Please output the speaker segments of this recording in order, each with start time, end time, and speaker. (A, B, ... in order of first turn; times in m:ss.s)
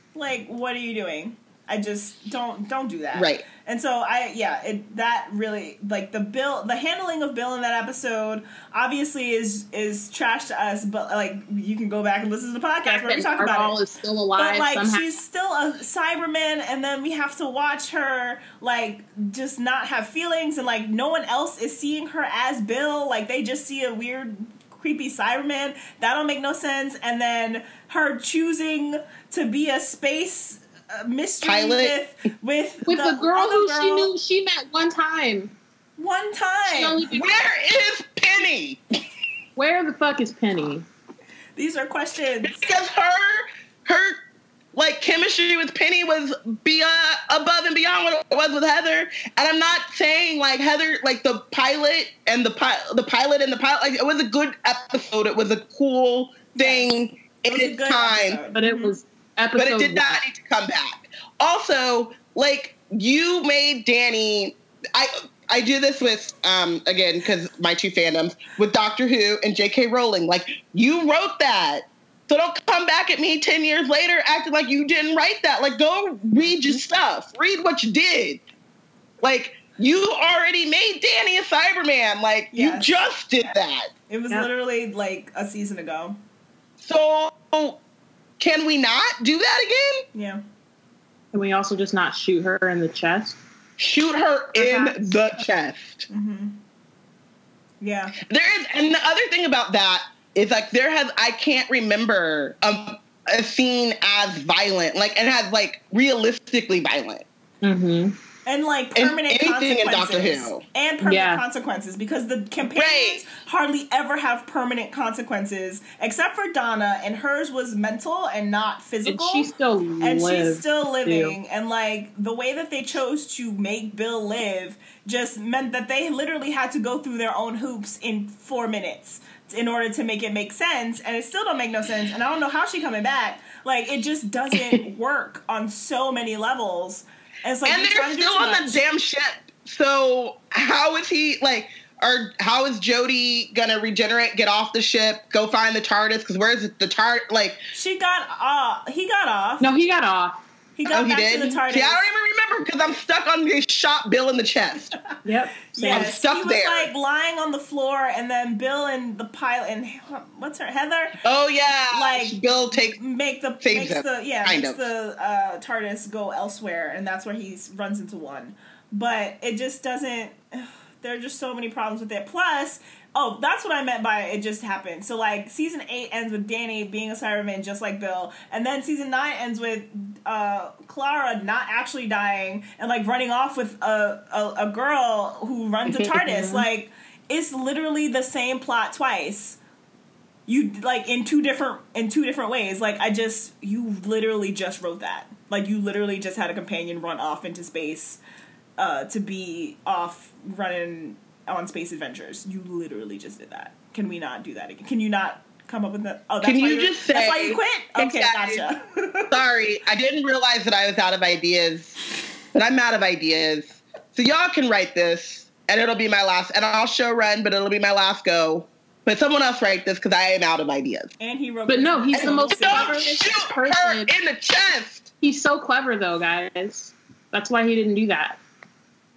0:00.1-0:13.8 A
0:03.1-0:03.4 B
0:12.8-0:15.1 C
0:14.4-0:34.1 A
0:31.4-0:31.9 B
0:32.9-0:35.5 C
0:36.0-0:37.0 A
0:36.6-0:37.4 C
0:37.1-0:38.8 B
0:39.6-0:40.8 C
0:41.6-0:42.6 A
0:42.4-0:44.2 B
0:44.7-0:58.4 B
0:56.5-0:59.0 A
0:58.5-1:00.2 C
0:59.6-1:18.4 B
1:19.2-1:23.9 B
1:22.5-1:23.0 A
1:24.1-1:26.2 A
1:26.8-1:27.8 B
1:28.4-1:30.0 B
1:30.1-1:30.4 A
1:31.3-1:33.4 C
1:33.8-1:36.1 B
1:34.6-1:35.1 C
1:36.1-1:36.6 A
1:37.8-1:38.1 A
1:38.2-1:47.2 B
1:47.6-1:48.2 C
1:48.4-1:59.5 A
1:49.0-1:50.6 B
1:51.0-1:51.4 C
1:52.7-1:53.2 B
1:59.0-2:01.4 C
2:00.0-2:18.8 A
2:17.6-2:27.6 B
2:27.7-2:29.7 A
2:29.6-2:30.4 C
2:30.8-2:32.1 A
2:30.9-2:34.9 B
2:35.2-2:36.1 C
2:35.8-2:41.2 A
2:35.8-2:36.9 B
2:41.2-2:43.0 B
2:41.9-3:09.6 A
2:43.6-2:44.9 B
3:06.3-3:06.6 C
3:10.5-3:18.2 A
3:18.8-3:29.4 A
3:26.4-3:28.6 B
3:29.3-3:32.0 B
3:32.5-3:41.1 B
3:41.2-3:43.0 A
3:41.7-3:44.1 C
3:42.1-3:45.1 B
3:45.2-3:48.4 C